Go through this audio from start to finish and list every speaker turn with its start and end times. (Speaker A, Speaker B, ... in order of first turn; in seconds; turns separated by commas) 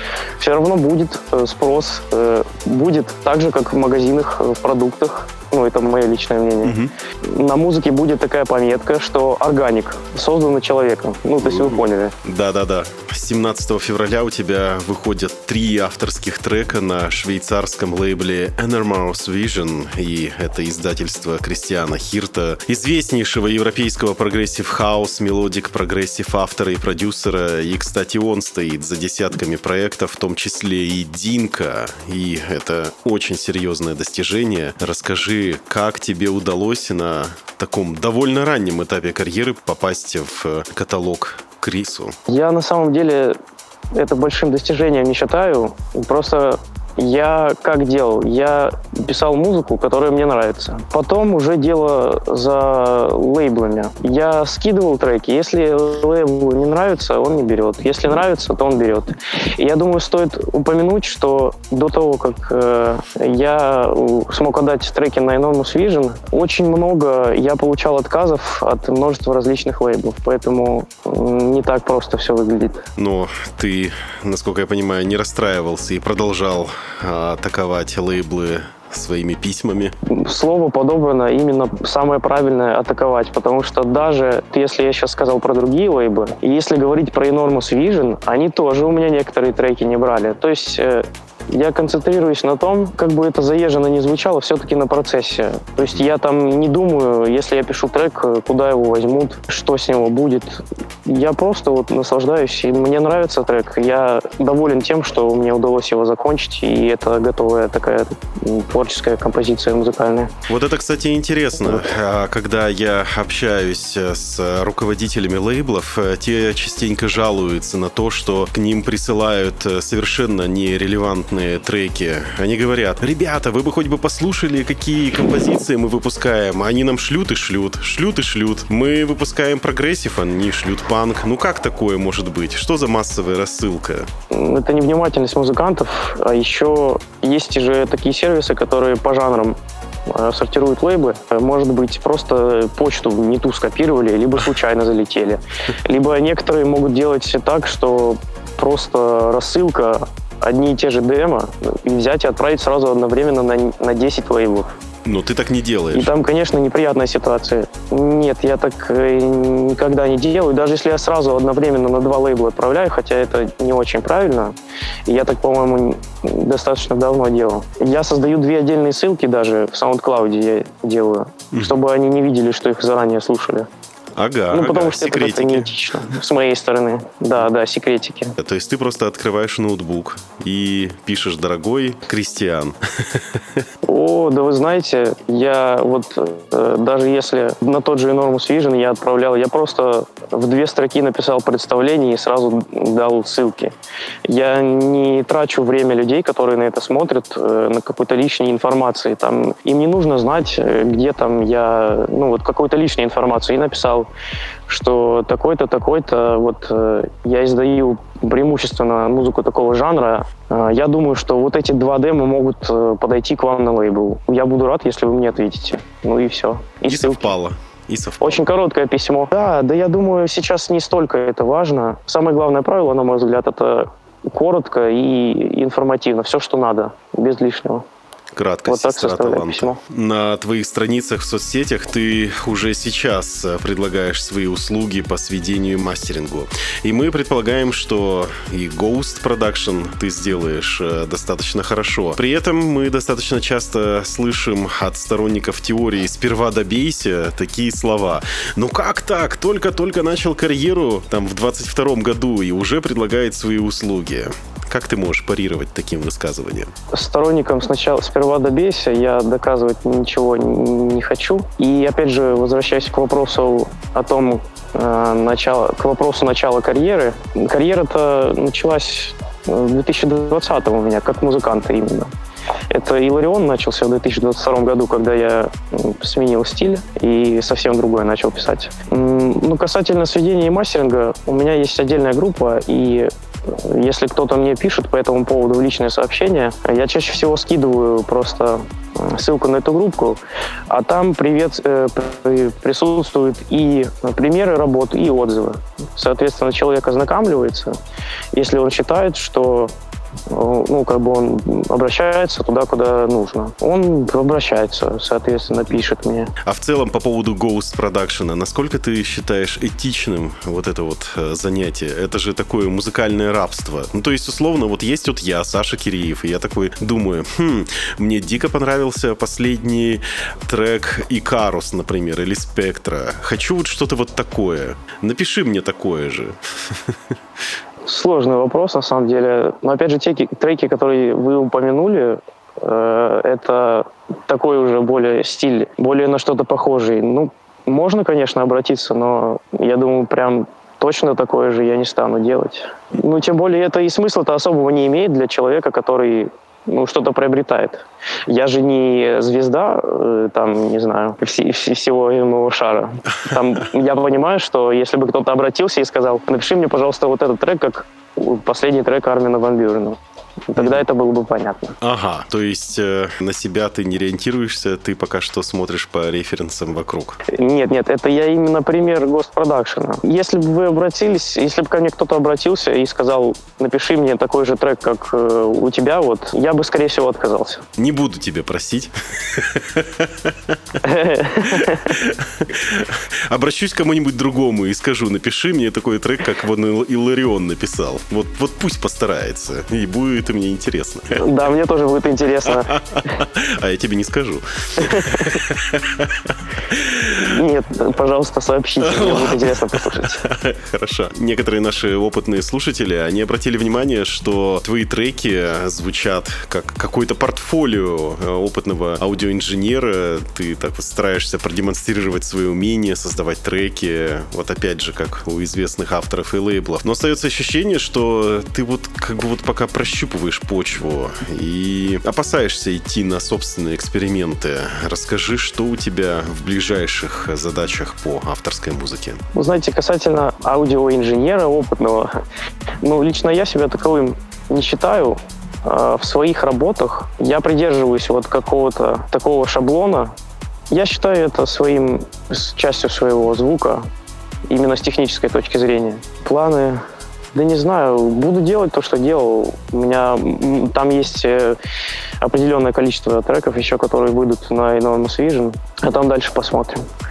Speaker A: 0.4-12.1, Speaker B: 6.6-6.9, Speaker B: 11.4-42.2, Speaker A: 42.3-43.4, Speaker A: 43.9-72.8, Speaker B: 73.0-80.0, Speaker A: 80.1-110.3, Speaker B: 95.8-96.1, Speaker B: 110.5-134.1, Speaker A: 134.3-154.7, Speaker B: 155.1-156.1, Speaker A: 155.9-164.6, Speaker A: 165.1-173.7, Speaker B: 174.1-175.7, Speaker A: 174.5-178.4, Speaker B: 178.4-183.6, Speaker A: 183.9-204.1, Speaker A: 204.7-217.3, Speaker B: 216.9-218.4, Speaker A: 218.2-227.8, Speaker B: 228.4-256.7, Speaker A: 228.7-229.8, Speaker A: 256.9-272.1, Speaker A: 272.7-297.8, Speaker A: 298.3-299.7, Speaker A: 300.3-306.3, Speaker B: 306.4-326.9, Speaker A: 327.9-361.8, Speaker B: 361.8-367.2, Speaker A: 367.3-377.6, Speaker B: 377.8-380.6, Speaker A: 380.8-381.9, Speaker B: 381.4-391.2, Speaker A: 391.1-392.7, Speaker B: 392.4-397.3, Speaker A: 394.8-395.3, Speaker A: 397.2-400.2, Speaker B: 398.8-429.2, Speaker A: 429.3-432.1, Speaker A: 432.8-440.1, Speaker A: 440.7-443.9, Speaker A: 444.5-451.6, Speaker A: 452.2-456.9